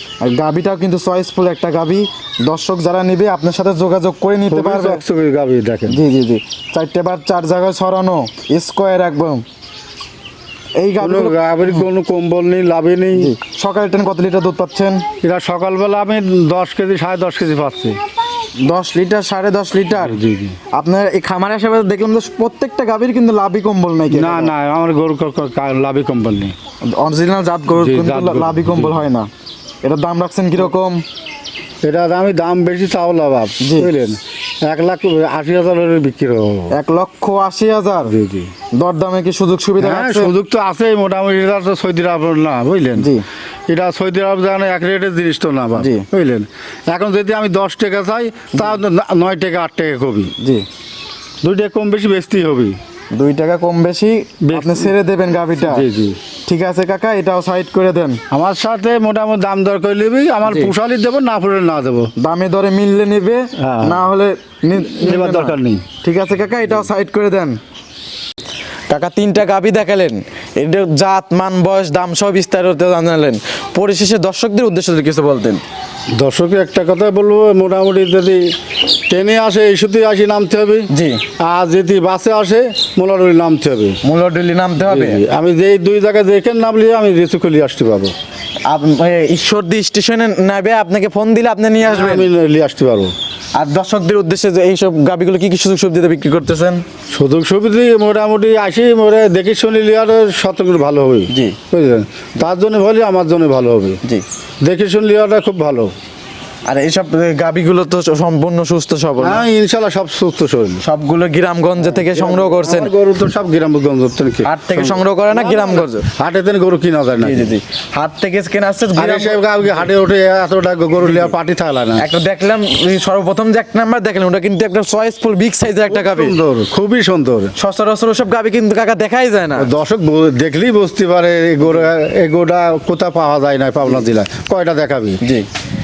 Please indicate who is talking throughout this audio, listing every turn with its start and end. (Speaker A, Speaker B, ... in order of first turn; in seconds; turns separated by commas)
Speaker A: 0.2-5.0, Speaker B: 4.5-6.0, Speaker A: 5.9-9.4, Speaker A: 10.8-11.8, Speaker B: 11.0-13.3, Speaker A: 13.2-15.0, Speaker B: 15.2-18.0, Speaker A: 18.6-20.2, Speaker B: 20.0-20.6, Speaker A: 20.7-24.5, Speaker B: 24.1-26.5, Speaker A: 26.8-29.3, Speaker B: 27.7-29.0, Speaker A: 29.8-31.0, Speaker B: 31.8-36.7, Speaker A: 33.6-33.9, Speaker A: 36.7-38.1, Speaker B: 38.0-38.5, Speaker A: 38.7-40.3, Speaker B: 39.8-43.1, Speaker A: 43.0-43.2, Speaker B: 43.7-50.3, Speaker A: 45.8-46.0, Speaker A: 50.4-50.6, Speaker B: 51.4-52.8, Speaker A: 53.1-55.8, Speaker B: 54.4-54.9, Speaker B: 55.6-56.2, Speaker A: 56.5-58.2, Speaker B: 58.3-62.1, Speaker A: 60.4-60.7, Speaker A: 62.2-67.6, Speaker B: 63.6-64.0, Speaker B: 65.0-65.8, Speaker A: 68.9-75.6, Speaker B: 76.2-78.4, Speaker B: 79.1-80.9, Speaker A: 80.9-81.2, Speaker B: 81.4-84.0, Speaker A: 84.0-85.2, Speaker B: 84.8-88.1, Speaker A: 88.7-92.3, Speaker B: 91.8-93.1, Speaker A: 93.5-96.8, Speaker B: 97.1-104.0, Speaker A: 101.3-101.6, Speaker B: 104.6-105.9, Speaker A: 106.7-109.4, Speaker B: 109.2-110.8, Speaker A: 110.8-112.9, Speaker B: 111.8-117.5, Speaker A: 114.4-116.0, Speaker A: 117.2-119.7, Speaker B: 119.0-122.0, Speaker A: 121.0-121.3, Speaker A: 122.0-126.3, Speaker B: 125.9-127.5, Speaker A: 127.5-129.7, Speaker B: 129.6-135.2, Speaker A: 135.2-135.5